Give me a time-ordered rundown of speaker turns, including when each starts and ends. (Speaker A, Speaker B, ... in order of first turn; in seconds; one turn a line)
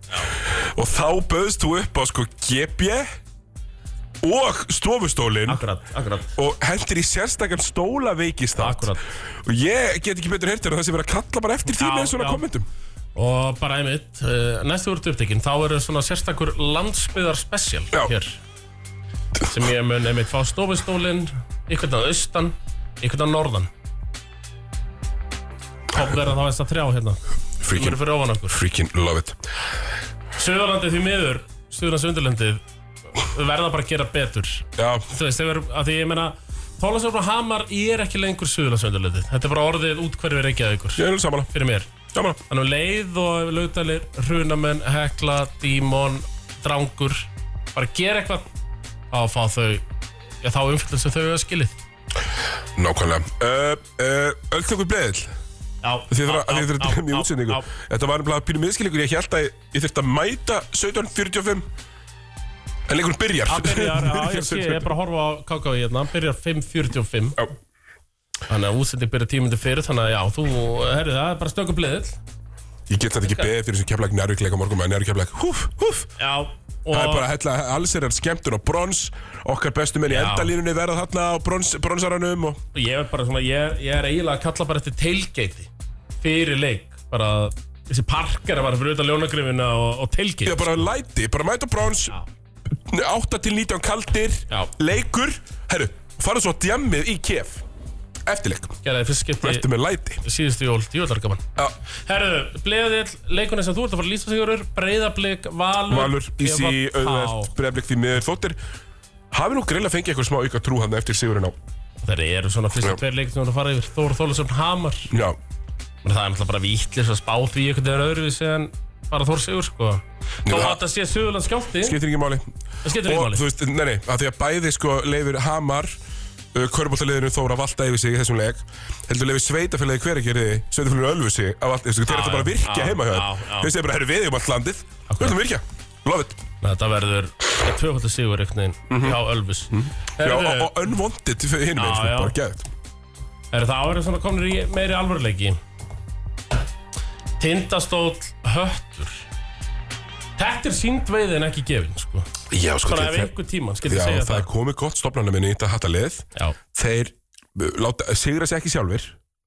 Speaker A: 0.4-3.1
Speaker A: 4.2-5.6
Speaker B: 5.5-6.3
Speaker A: 6.3-12.7
Speaker B: 8.6-9.0
Speaker B: 11.7-12.4
Speaker B: 13.2-18.4
Speaker B: 19.4-23.7
Speaker B: 25.9-28.6
Speaker A: 27.6-28.0
Speaker A: 28.5-29.4
Speaker B: 30.4-32.6
Speaker B: 33.1-41.9
Speaker A: 34.8-35.0
Speaker A: 41.0-41.5
Speaker A: 42.1-42.4
Speaker B: 42.5-48.4
Speaker B: 49.1-49.8
Speaker B: 50.4-51.8
Speaker A: 52.8-55.3
Speaker B: 55.8-57.7
Speaker A: 56.1-61.7
Speaker A: 62.9-64.9
Speaker B: 63.5-67.4
Speaker B: 68.5-72.2
Speaker A: 72.9-76.1
Speaker B: 76.2-77.2
Speaker A: 76.9-82.6
Speaker B: 80.1-80.5
Speaker B: 82.7-85.7
Speaker B: 86.2-90.8
Speaker A: 90.4-92.1
Speaker A: 92.7-97.6
Speaker A: 98.2-98.8
Speaker B: 98.8-99.7
Speaker A: 99.4-100.2
Speaker B: 100.2-101.4
Speaker B: 102.0-107.5
Speaker A: 105.9-108.6
Speaker A: 109.3-111.5
Speaker B: 112.0-115.1
Speaker A: 115.1-115.4
Speaker B: 116.0-122.0
Speaker A: 120.5-120.8
Speaker A: 121.8-126.0
Speaker B: 122.8-123.4
Speaker A: 126.5-136.4
Speaker B: 132.1-133.7
Speaker B: 135.1-135.3
Speaker B: 136.6-140.8
Speaker A: 138.9-139.2
Speaker A: 139.7-142.7
Speaker B: 141.8-142.3
Speaker B: 143.5-145.6
Speaker B: 147.4-149.2
Speaker B: 150.4-152.3
Speaker A: 152.5-153.3
Speaker B: 152.8-154.5
Speaker A: 153.8-159.2